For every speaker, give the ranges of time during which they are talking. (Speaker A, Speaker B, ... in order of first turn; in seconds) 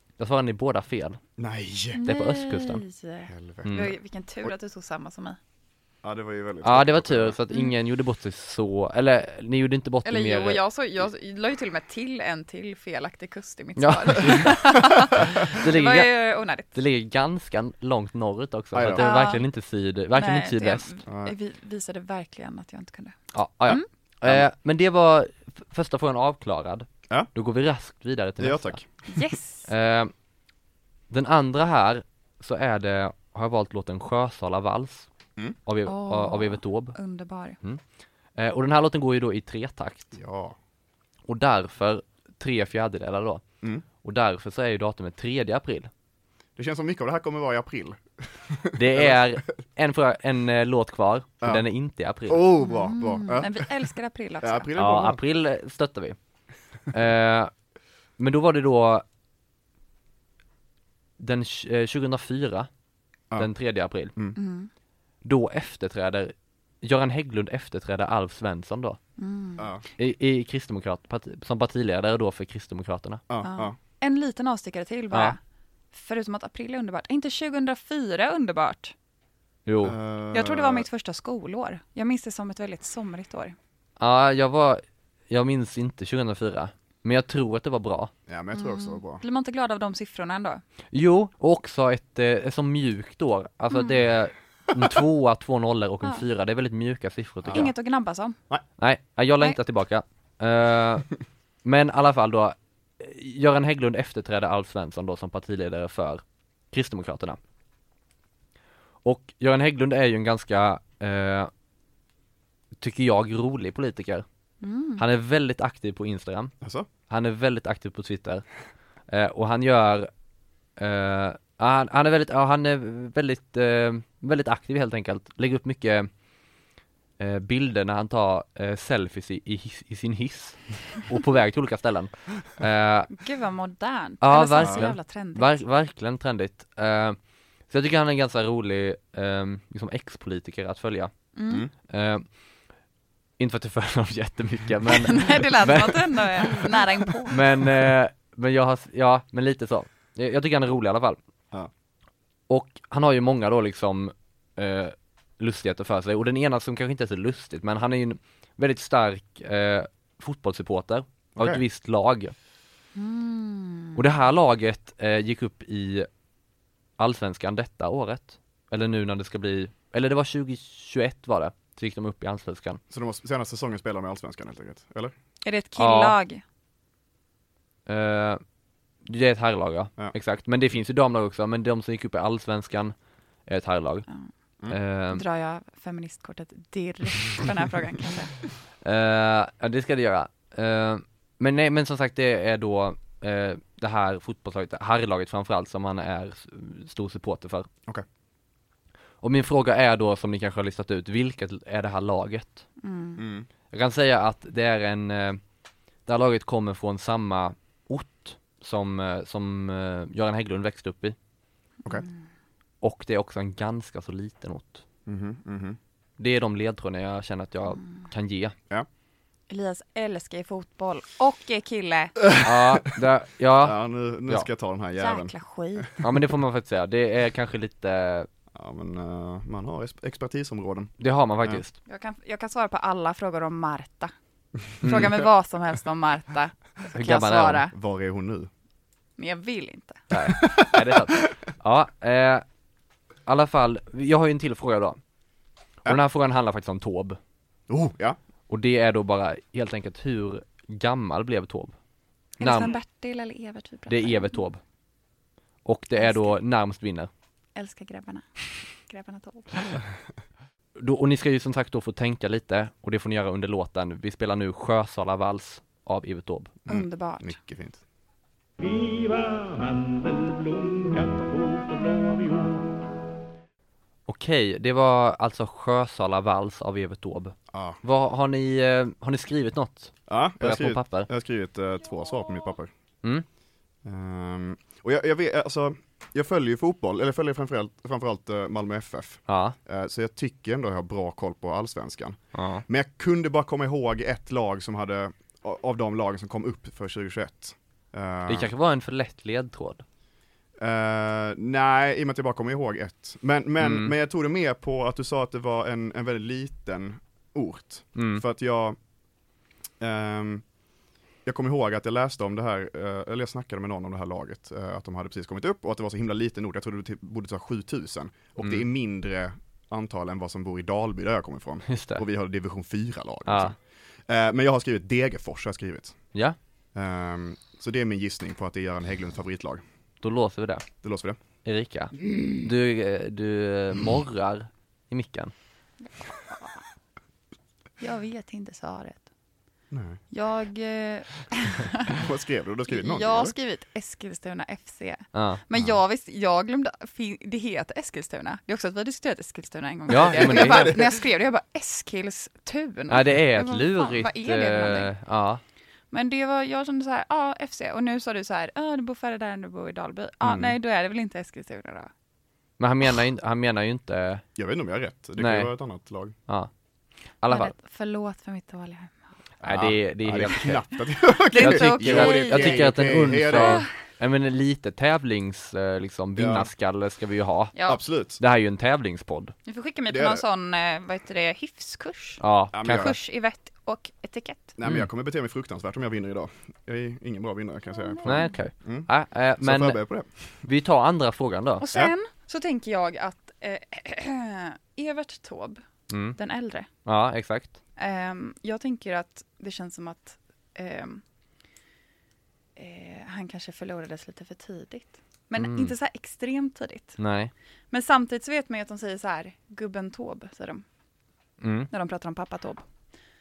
Speaker A: 0.2-1.2, 2.0-2.8, 3.6-3.9, 6.6-10.6, 13.8-16.1, 16.7-20.9, 23.3-28.8, 29.7-30.1, 31.1-35.1, 35.7-37.0, 38.4-40.1, 41.3-43.4, 44.0-45.9, 48.8-52.5, 54.8-56.2, 56.9-57.5, 58.2-59.0, 61.2-62.7, 63.4-64.2, 65.2-69.0, 70.0-73.2, 79.7-80.0, 84.0-88.1, 90.9-97.7, 98.8-101.1, 101.6-107.4, 109.0-111.5, 112.8-114.2, 115.0-116.5, 117.1-118.5, 119.1-120.1, 120.8-126.1, 127.2-133.1, 134.2-137.2, 137.7-141.1, 141.9-142.3, 143.4-146.6, 147.3-151.2, 152.5-162.3, 163.9-166.1, 167.0-172.8, 175.8-176.2, 177.9-178.4, 179.1-182.9, 183.5-184.1, 184.7-185.2, 188.8-197.7, 199.2-202.7, 203.7-205.4, 206.1-211.2, 212.8-214.8, 216.2-218.6, 222.4-224.5, 226.0-228.3, 231.0-231.8, 234.8-235.2, 236.9-237.7, 240.1-242.4, 243.3-245.0, 245.8-247.2, 248.5-251.8, 252.4-252.8, 253.9-254.6, 255.7-257.1, 260.8-266.5, 274.1-281.1, 289.3-289.6, 292.3-292.6, 298.3-299.8, 303.6-303.9, 307.9-308.2, 318.4-318.7, 321.7-322.0, 323.3-323.5, 330.0-330.7, 331.4-335.3, 345.1-345.4, 349.9-350.7, 352.9-355.4, 362.6-364.2, 365.2-365.5, 367.2-367.5, 369.4-370.6, 371.4-377.6, 378.2-379.3, 382.2-382.9, 388.0-389.8, 390.4-391.7, 395.9-396.2, 396.9-397.6, 405.4-405.7, 407.0-407.3, 411.4-411.7
Speaker B: 1.4-2.0, 3.3-3.8, 6.0-7.4, 18.7-19.1, 21.1-21.4, 28.4-29.2, 40.1-40.6, 46.6-49.5, 52.3-53.9, 54.4-55.2, 69.6-69.8, 73.3-73.8, 79.8-80.9, 88.3-89.2, 97.4-97.7, 116.6-116.9, 134.6-134.9, 161.4-161.6, 172.9-175.1, 203.2-203.5, 215.1-215.8, 222.2-222.8, 223.6-225.9, 228.6-230.9, 237.7-238.5, 240.3-241.1, 247.7-248.2, 266.7-267.8, 277.5-277.8, 280.1-282.7, 283.8-298.5, 300.6-308.8, 309.8-310.4, 311.2-326.0, 326.8-329.6, 330.8-331.2, 339.7-340.0, 341.9-343.4, 349.9-351.0, 360.2-360.6, 364.4-366.1, 369.4-373.7, 376.2-376.5, 377.7-378.2, 379.9-380.2, 382.5-383.0, 384.6-388.9, 389.4-390.4
Speaker C: 1.9-5.4, 10.1-16.7, 18.9-19.4, 20.1-23.9, 29.1-29.7, 35.9-37.6, 52.6-54.7, 64.4-64.7, 69.2-69.7, 73.4-75.4, 75.9-78.9, 80.3-83.6, 88.5-90.6, 97.5-98.4, 114.6-115.0, 133.1-135.6, 141.3-141.7, 144.9-147.4, 162.9-164.0, 175.4-176.4, 185.1-188.4, 202.8-203.2, 211.8-212.1, 219.5-222.2, 225.0-225.9, 231.9-234.1, 234.8-237.7, 239.2-240.1, 252.4-254.4, 256.0-256.4, 257.6-259.6, 266.7-267.4, 335.9-336.6, 337.8-339.1, 340.1-342.0, 342.7-354.9, 355.9-361.9, 367.3-368.9, 371.3-372.7, 373.3-373.7, 377.6-377.8, 379.5-384.6, 387.7-388.4, 391.6-395.6, 396.2-396.7, 397.8-401.0, 402.6-407.0, 407.7-410.6, 411.7-412.6
Speaker D: 268.6-272.7